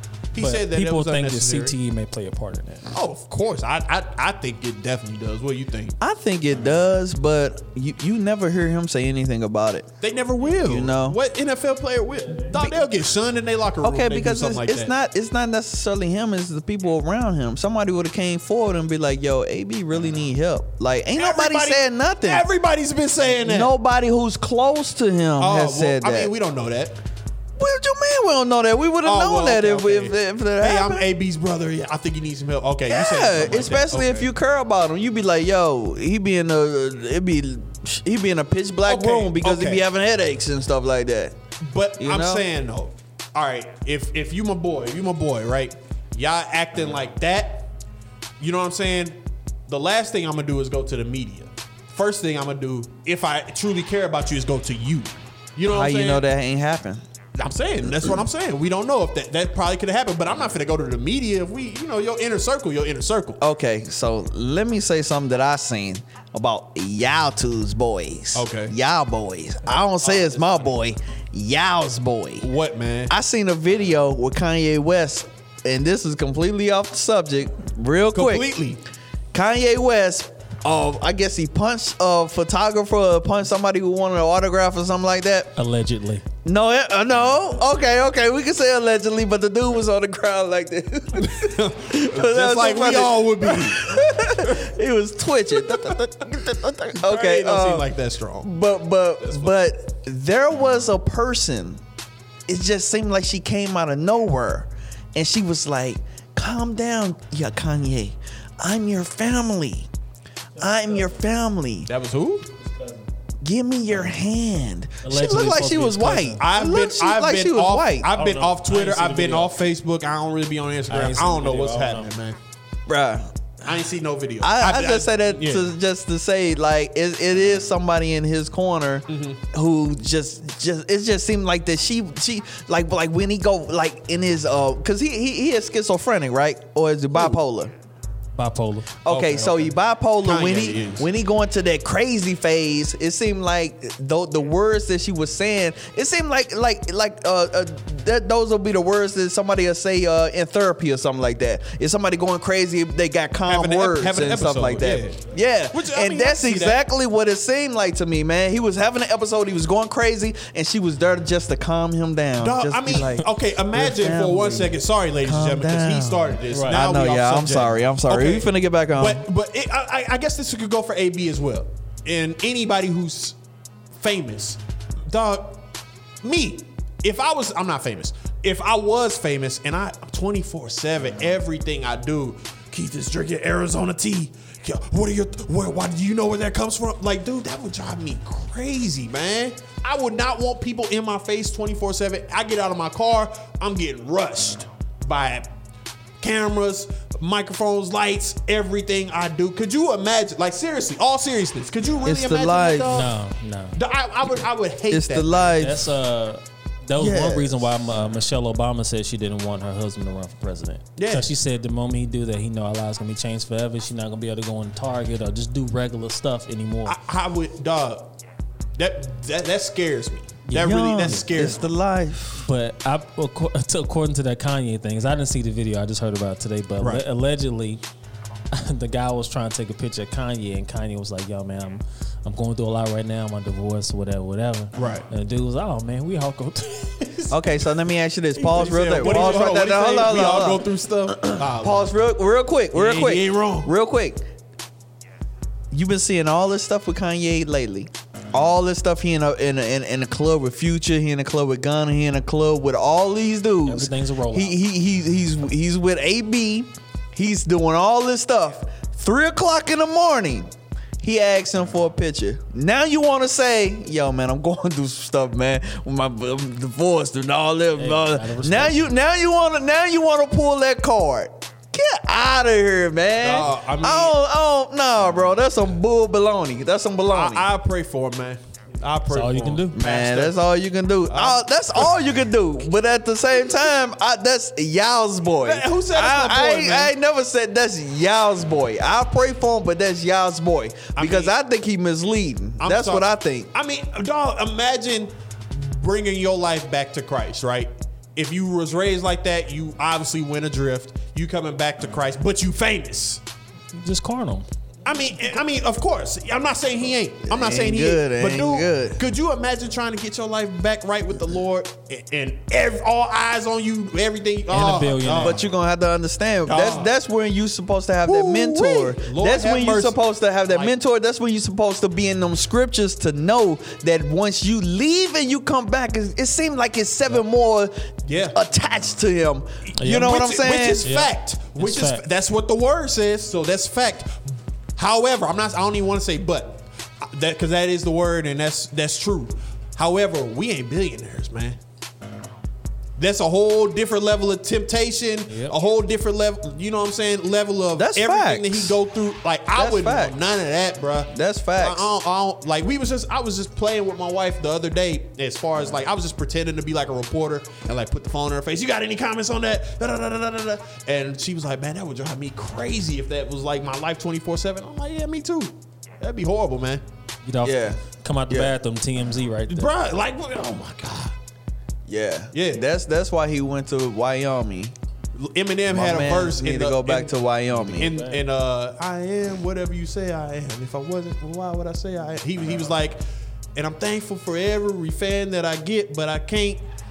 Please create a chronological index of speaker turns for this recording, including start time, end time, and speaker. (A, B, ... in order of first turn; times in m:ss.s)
0:00.3-0:01.8 A
0:00.4-0:02.9 B
0:02.9-0:06.0 A
0:06.0-0:09.9 C
0:10.0-0:14.9 A
0:10.6-0:11.2 C
0:12.5-0:12.9 C
0:13.8-0:22.4 C
0:21.2-0:23.7 A
0:23.4-0:26.3 C
0:25.4-0:27.0 A
0:27.6-0:31.1 C
0:29.0-0:34.3 A
0:32.9-0:41.4 C
0:38.9-0:39.9 A
0:41.6-0:47.7 A
0:42.0-0:42.4 C
0:48.4-0:49.2 A
0:49.7-0:56.2 A
0:55.7-0:57.0 C
0:57.4-1:03.4 A
1:03.4-1:12.5 C
1:08.3-1:08.7 A
1:09.7-1:10.7 A
1:12.4-1:13.1 A
1:13.1-1:18.5 C
1:18.1-1:18.8 A
1:19.3-1:25.5 C
1:25.6-1:26.2 B
1:26.4-1:37.9 C
1:31.2-1:34.7 A
1:35.7-1:36.0 A
1:37.0-1:38.5 A
1:38.4-1:41.8 C
1:39.2-1:39.5 A
1:42.5-1:49.9 C
1:50.6-1:51.9 C
1:51.9-1:52.5 A
1:52.6-1:53.1 B
1:53.4-1:58.1 C
1:55.0-1:56.4 B
1:56.4-2:02.4 A
1:58.1-1:59.6 B
2:00.9-2:02.1 B
2:02.9-2:03.3 C
2:03.6-2:05.7 A
2:04.4-2:17.7 C
2:09.1-2:09.4 A
2:18.4-2:19.0 B
2:19.0-2:49.2 C
2:19.1-2:21.1 A
2:33.5-2:36.8 A
2:42.4-2:53.4 A
2:46.5-2:46.8 B
2:53.9-2:55.6 A
2:56.2-3:15.5 A
3:16.2-3:23.1 A
3:22.0-3:23.1 C
3:22.9-3:23.8 B
3:23.7-3:25.6 A
3:24.9-3:25.9 C
3:25.6-3:37.0 B
3:27.0-3:27.7 C
3:31.0-3:31.3 A
3:36.9-3:38.1 A
3:38.8-3:41.6 A
3:40.5-3:41.5 B
3:40.5-3:42.5 C
3:42.4-3:47.8 B
3:46.8-3:47.0 A
3:48.5-3:57.3 B
3:54.7-3:55.1 A
3:57.3-4:00.7 C
3:58.4-4:01.9 A
4:01.2-4:04.2 C
4:02.7-4:03.7 A
4:05.7-4:37.5 C
4:13.6-4:14.6 B
4:27.8-4:28.9 B
4:33.2-4:34.2 A
4:37.1-4:40.4 A
4:39.1-4:39.8 B
4:39.7-4:53.5 C
4:41.1-4:41.9 A
4:45.4-4:46.9 A
4:50.9-4:51.3 A
4:52.6-5:03.2 A
5:03.7-5:04.5 B
5:04.8-5:15.4 A
5:07.2-5:09.0 C
5:14.5-5:15.4 B
5:15.1-5:30.9 C
5:16.4-5:16.9 A
5:18.0-5:20.7 A
5:28.1-5:28.4 A
5:29.6-5:34.2 A
5:29.8-5:30.2 B
5:30.8-5:32.0 B
5:34.8-5:41.6 A
5:43.0-6:06.8 A
5:45.3-5:45.6 B
5:47.8-5:48.8 C
5:49.5-5:50.2 C
5:51.1-5:51.9 C
6:07.2-6:09.7 B
6:07.4-6:08.5 C
6:09.5-6:11.1 A
6:11.9-6:14.7 C
6:12.3-6:12.6 A
6:15.2-6:17.2 A
6:15.7-6:17.9 C
6:17.5-6:18.2 B
6:17.7-6:23.0 A
6:23.6-6:26.6 A